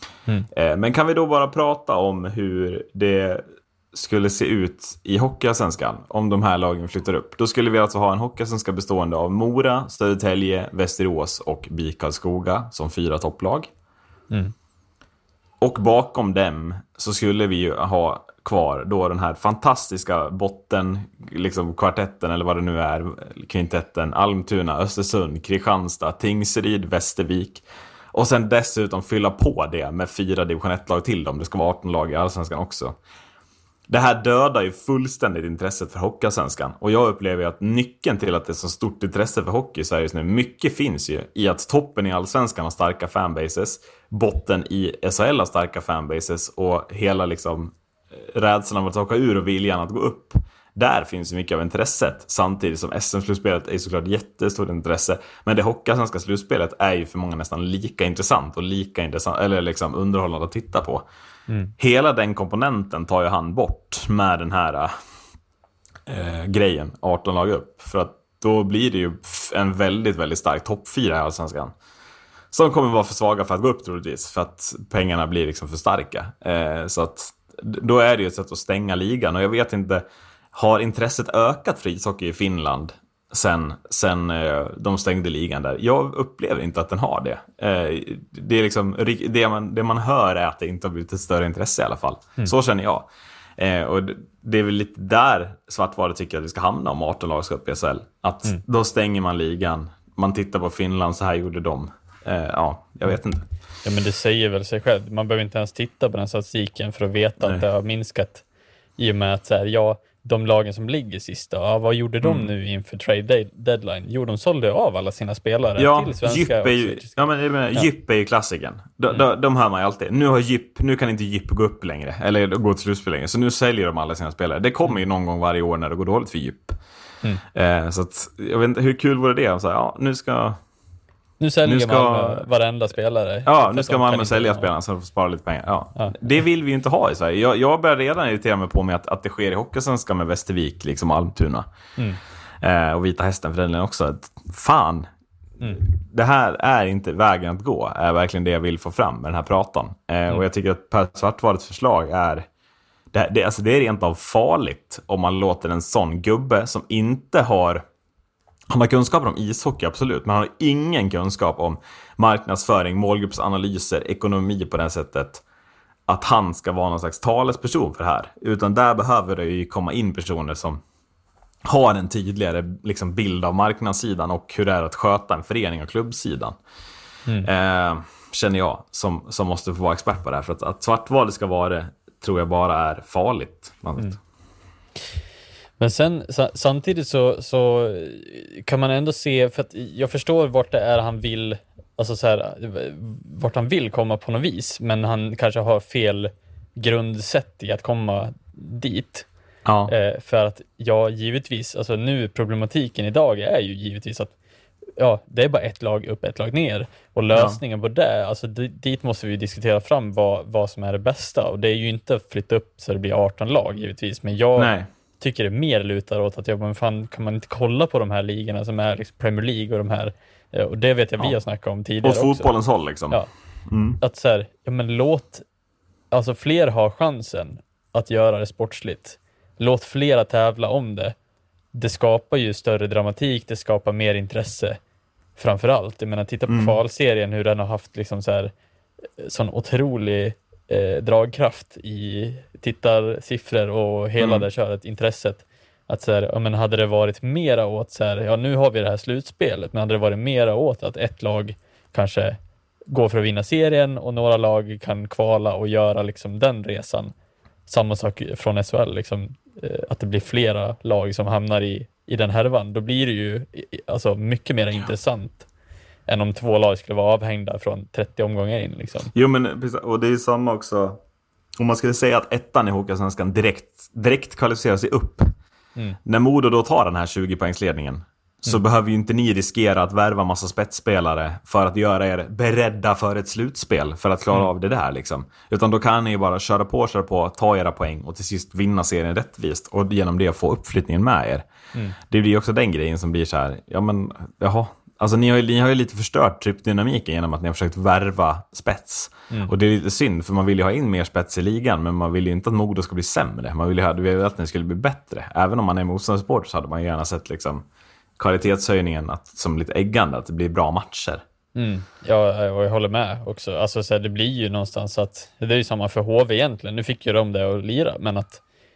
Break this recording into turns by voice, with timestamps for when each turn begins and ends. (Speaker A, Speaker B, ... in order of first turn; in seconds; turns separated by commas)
Speaker A: 0.5-13.7, Speaker A: 15.6-33.0, Speaker A: 33.9-61.0, Speaker A: 61.8-64.9, Speaker A: 66.1-71.7, Speaker A: 72.5-103.5, Speaker B: 103.8-108.4, Speaker A: 107.4-107.6, Speaker B: 109.0-117.2, Speaker A: 112.2-112.5, Speaker A: 115.8-126.8, Speaker A: 127.5-130.6, Speaker B: 131.4-134.7, Speaker A: 131.6-132.4, Speaker A: 133.4-141.7, Speaker A: 142.6-145.1, Speaker A: 145.7-152.5, Speaker A: 153.1-157.8, Speaker A: 158.7-165.4, Speaker A: 166.1-170.8, Speaker A: 171.6-176.6, Speaker A: 177.4-184.2, Speaker B: 185.8-199.3, Speaker A: 199.6-199.9, Speaker B: 199.9-204.3, Speaker B: 205.0-222.5, Speaker A: 207.3-207.6, Speaker A: 214.6-214.9, Speaker A: 222.0-224.0, Speaker B: 224.0-225.4, Speaker B: 226.1-231.1, Speaker B: 231.7-234.8, Speaker B: 235.4-238.5, Speaker A: 236.5-236.8, Speaker B: 239.2-257.1, Speaker A: 244.2-244.5, Speaker B: 257.7-265.5, Speaker B: 266.1-269.1, Speaker A: 269.1-271.0, Speaker A: 271.6-275.3, Speaker A: 276.0-291.4, Speaker A: 292.0-307.6, Speaker A: 308.2-311.2, Speaker B: 311.6-318.4